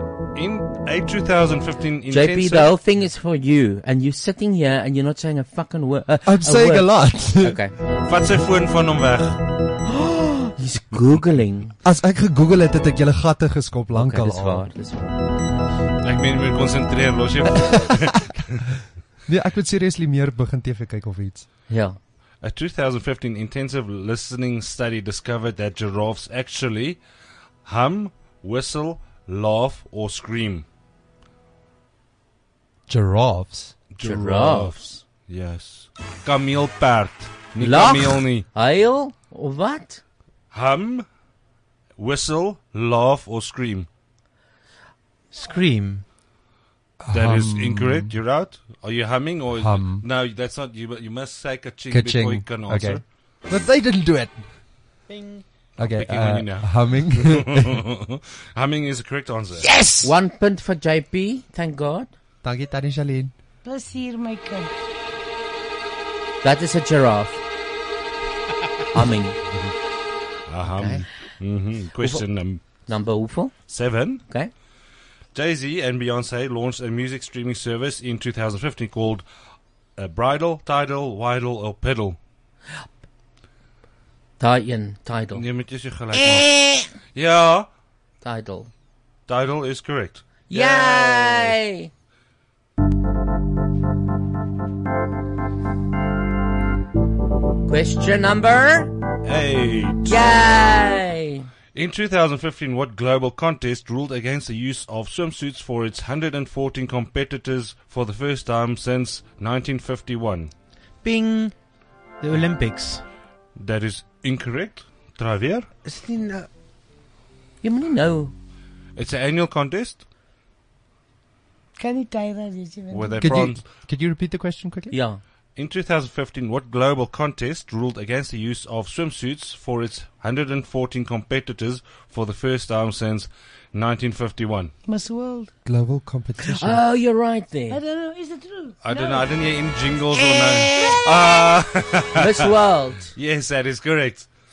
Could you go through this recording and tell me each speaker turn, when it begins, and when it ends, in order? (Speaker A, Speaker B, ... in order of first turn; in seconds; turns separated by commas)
Speaker A: 0.3-2.8, Speaker B: 2.1-7.7, Speaker C: 6.2-7.6, Speaker A: 8.0-9.4, Speaker B: 9.9-11.7, Speaker C: 11.8-14.7, Speaker B: 13.9-15.2, Speaker A: 16.0-18.6, Speaker C: 17.6-18.2, Speaker C: 19.3-21.4, Speaker B: 21.7-22.0, Speaker A: 22.4-27.0, Speaker A: 27.6-30.6, Speaker C: 32.9-33.8, Speaker A: 33.9-38.4, Speaker B: 34.0-34.7, Speaker B: 37.6-40.0, Speaker A: 40.5-41.0, Speaker A: 42.0-43.9, Speaker D: 45.3-46.0, Speaker C: 47.0-48.1, Speaker A: 47.1-53.0, Speaker C: 49.5-50.0, Speaker C: 51.9-54.4, Speaker D: 55.1-55.4, Speaker C: 55.8-57.8, Speaker A: 55.8-59.7, Speaker B: 60.0-62.1, Speaker C: 62.4-63.3, Speaker E: 63.6-64.7, Speaker B: 66.4-67.4, Speaker B: 68.9-69.4, Speaker A: 70.5-72.6, Speaker B: 70.8-71.0, Speaker B: 72.8-73.5, Speaker A: 73.7-74.2, Speaker A: 75.3-79.2, Speaker A: 80.0-82.2, Speaker B: 84.4-85.4, Speaker A: 85.3-87.7, Speaker B: 86.1-86.9, Speaker B: 88.2-88.7, Speaker A: 89.3-91.6, Speaker B: 90.5-91.9, Speaker B: 97.7-98.9, Speaker A: 99.2-100.4, Speaker B: 100.0-101.5, Speaker A: 101.7-110.5, Speaker D: 111.0-111.5, Speaker D: 112.2-113.0, Speaker A: 113.5-115.7, Speaker D: 115.8-116.5, Speaker B: 117.6-118.3, Speaker A: 119.0-120.0, Speaker E: 121.8-123.2, Speaker A: 122.9-123.7, Speaker C: 123.2-125.0, Speaker B: 124.9-125.2, Speaker A: 125.5-134.7, Speaker E: 134.8-135.5, Speaker C: 135.6-136.8, Speaker B: 136.4-137.8, Speaker E: 137.7-139.3, Speaker A: 138.8-142.6, Speaker B: 140.2-141.0, Speaker B: 142.2-143.1, Speaker A: 143.2-144.3